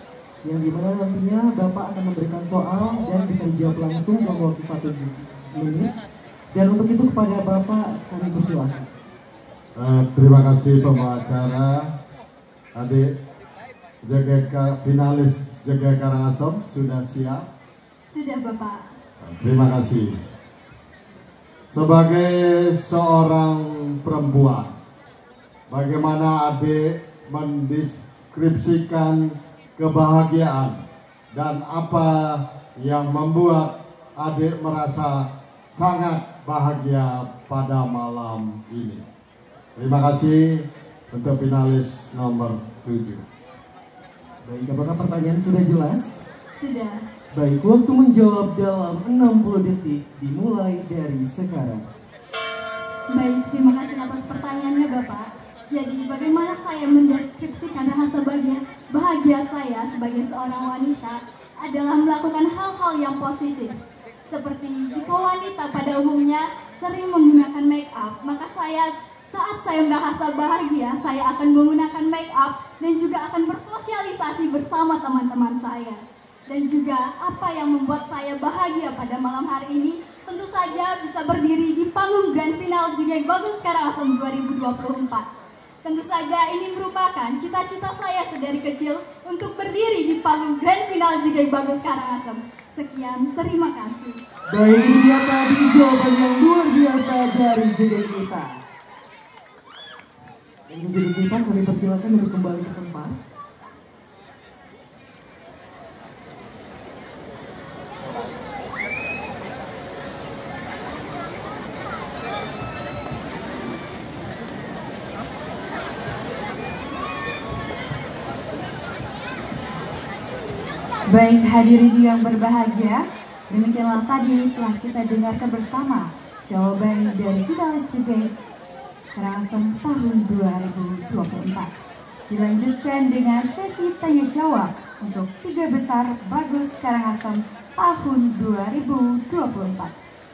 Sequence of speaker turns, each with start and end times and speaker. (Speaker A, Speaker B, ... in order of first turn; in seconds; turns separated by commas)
Speaker A: 0.4-5.9, Speaker A: 6.5-8.9, Speaker B: 9.8-11.9, Speaker B: 12.8-13.1, Speaker B: 14.0-17.5, Speaker C: 18.1-18.9, Speaker B: 19.2-20.1, Speaker B: 21.7-24.8, Speaker B: 25.7-30.8, Speaker B: 31.3-39.0, Speaker B: 39.8-43.2, Speaker A: 44.5-46.3, Speaker C: 46.5-47.0, Speaker A: 47.3-51.9, Speaker C: 53.1-85.3, Speaker C: 85.8-94.2, Speaker A: 94.5-98.6, Speaker A: 100.7-103.2, Speaker D: 121.1-128.3, Speaker D: 129.2-131.7, Speaker D: 132.3-139.9